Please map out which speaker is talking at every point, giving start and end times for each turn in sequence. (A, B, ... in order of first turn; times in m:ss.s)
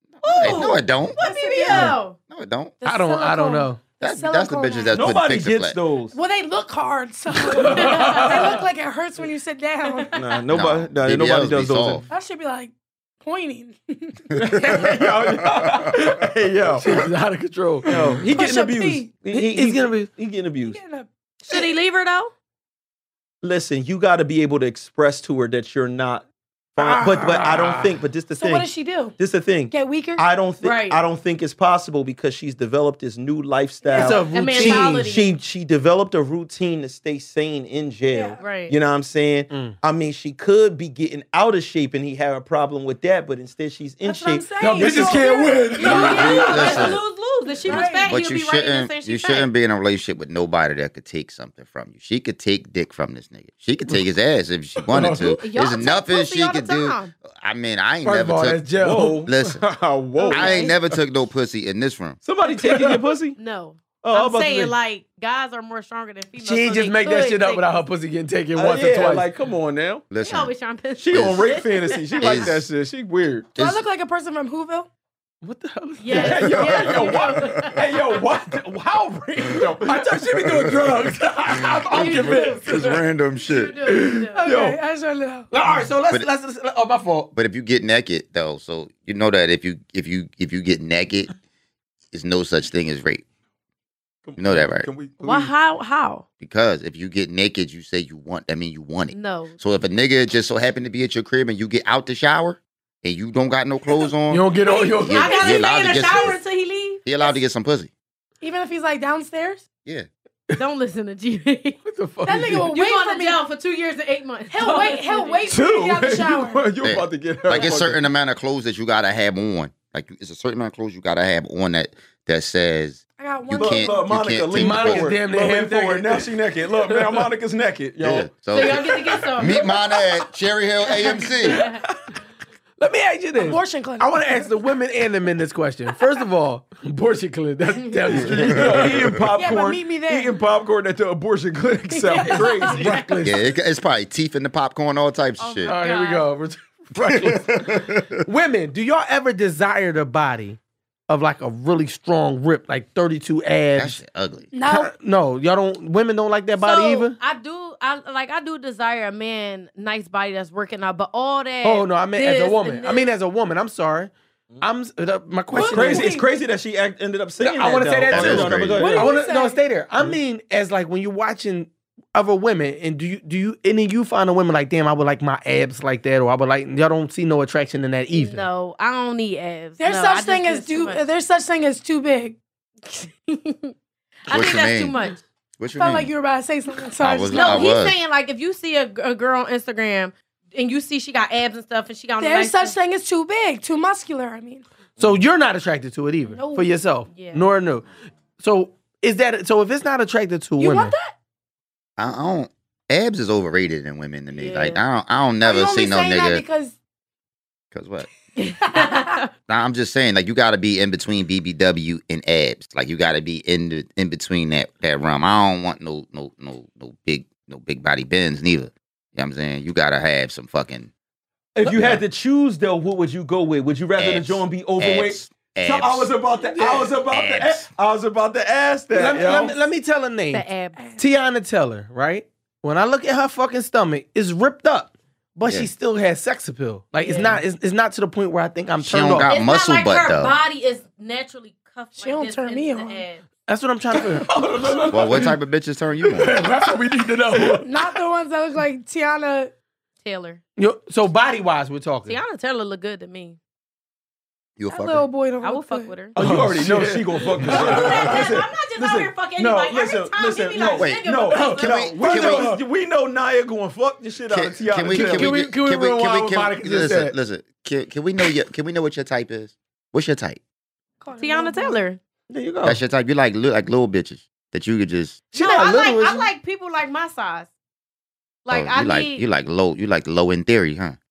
0:00.2-0:02.2 A
0:00.2-0:02.8 B
0:01.2-0:02.0 C
0:02.8-0:05.0 C
0:02.8-0:03.8 D
0:04.0-0:05.8 B
0:04.9-0:06.2 E
0:06.1-0:10.2 C
0:07.5-0:08.6 D
0:07.8-0:08.3 A
0:09.8-0:10.3 A
0:10.1-0:12.1 E
0:10.5-0:12.0 B
0:12.1-0:14.3 C
0:14.4-0:16.2 D
0:14.4-0:17.1 E
0:16.8-0:18.2 D
0:17.8-0:20.8 E
0:18.3-0:19.1 C
0:19.3-0:20.1 D
0:20.7-0:21.7 C
0:21.5-0:22.3 A
0:23.4-0:45.3 E
0:26.8-0:28.0 D
0:28.3-0:29.2 C
0:29.7-0:30.3 C
0:30.6-0:31.0 A
0:33.8-0:34.2 C
0:33.9-0:35.0 D
0:34.3-0:35.4 A
0:38.1-0:38.4 C
0:38.4-0:38.7 A
0:39.5-0:39.8 D
0:44.0-0:47.0 C
0:44.6-0:46.9 D
0:45.8-0:49.5 A
0:45.8-0:47.0 B
0:47.5-0:48.2 C
0:47.7-0:58.7 B
0:54.8-0:55.4 D
0:55.4-0:57.1 A
0:58.0-0:59.3 D
0:58.8-1:00.8 E
0:59.2-0:59.6 B
1:00.2-1:00.8 A
1:00.3-1:02.2 B
1:02.2-1:03.4 E
1:03.4-1:07.7 A
1:04.0-1:04.8 E
1:06.4-1:09.3 D
1:08.6-1:10.1 E
1:10.1-1:10.5 B
1:10.2-1:12.5 A
1:11.0-1:13.5 E
1:11.1-1:11.4 B
1:12.2-1:12.6 B
1:13.6-1:13.8 B
1:13.6-1:14.9 C
1:15.4-1:17.7 D
1:16.0-1:18.2 A
1:16.1-1:18.7 E
1:18.6-1:23.0 D
1:19.4-1:20.1 E
1:20.4-1:23.8 B
1:21.9-1:22.6 A
1:23.4-1:24.5 A
1:24.1-1:24.8 E
1:24.3-1:25.5 C
1:25.5-1:27.3 D
1:27.3-1:31.3 B
1:32.1-1:33.2 B
1:34.2-1:35.5 E
1:34.4-1:34.9 B
1:35.2-1:36.2 A
1:36.4-1:46.4 B
1:39.1-1:39.6 A
1:44.3-1:45.4 D
1:44.6-1:47.4 A
1:47.0-1:47.9 B
1:48.4-1:49.7 C
1:50.6-1:51.8 A
1:51.8-1:52.7 D
1:52.2-1:53.4 C
1:52.7-1:55.5 A
1:54.5-1:56.7 C
1:55.5-1:58.0 E
1:56.8-2:05.1 B
2:03.2-2:04.1 C
2:03.5-2:08.3 E
2:04.5-2:06.3 D
2:06.8-2:07.2 D
2:08.0-2:11.6 B
2:08.5-2:09.6 A
2:11.0-2:11.9 D
2:11.5-2:11.8 A
2:12.8-2:19.0 D
2:13.4-2:14.5 C
2:18.1-2:23.1 E
2:18.5-2:19.1 B
2:19.3-2:20.4 C
2:22.1-2:22.8 A
2:22.1-2:22.8 C
2:22.4-2:23.4 D
2:23.2-2:25.8 B
2:25.4-2:26.2 A
2:25.7-2:34.0 D
2:27.0-2:28.2 B
2:33.8-2:34.5 B
2:34.5-2:34.9 C
2:34.7-2:37.2 D
2:36.6-2:43.1 A
2:41.6-2:46.1 D
2:45.5-2:46.3 C
2:45.6-2:49.2 E
2:47.4-2:58.5 D
2:48.1-2:48.9 B
2:48.8-2:49.6 C
2:58.1-3:01.1 A
2:59.8-3:02.4 C
3:02.9-3:03.7 A
3:04.2-3:05.2 A
3:04.3-3:05.0 B
3:05.6-3:06.1 B
3:05.8-3:07.7 C
3:07.0-3:08.0 B
3:07.3-3:12.8 A
3:12.2-3:14.6 C
3:15.0-3:17.9 D
3:16.3-3:16.7 C
3:17.1-3:17.4 A
3:18.4-3:20.9 D
3:20.6-3:21.1 C
3:22.0-3:26.4 B
3:24.3-3:24.8 A
3:25.4-3:26.8 C
3:27.7-3:28.1 B
3:28.4-3:29.3 A
3:28.6-3:29.2 C
3:29.5-3:40.9 B
3:41.6-3:49.6 E
3:41.6-3:42.0 B
3:44.0-3:46.1 B
3:46.4-3:46.9 D
3:47.1-3:47.7 B
3:48.9-3:50.5 D
3:50.3-3:50.8 A
3:50.8-3:51.0 C
3:51.0-3:59.3 D
3:57.0-3:57.4 A
3:58.8-4:00.4 B
3:59.2-4:03.2 A
4:02.0-4:03.0 C
4:03.5-4:05.3 D
4:04.9-4:06.4 B
4:06.1-4:07.7 D
4:07.6-4:09.5 C
4:10.0-4:10.4 A
4:10.6-4:12.2 D
4:12.1-4:13.4 A
4:14.6-4:15.1 B
4:14.7-4:16.1 C
4:15.4-4:16.2 A
4:16.1-4:18.3 D
4:16.2-4:25.3 E
4:17.5-4:21.8 A
4:20.8-4:22.5 B
4:22.0-4:22.6 D
4:24.3-4:30.4 B
4:24.9-4:27.2 D
4:31.0-4:31.8 C
4:31.2-4:32.0 A
4:32.3-4:32.8 D
4:32.6-4:35.2 B
4:35.3-4:36.3 D
4:35.3-4:37.5 A
4:38.4-4:39.2 A
4:38.5-4:41.0 B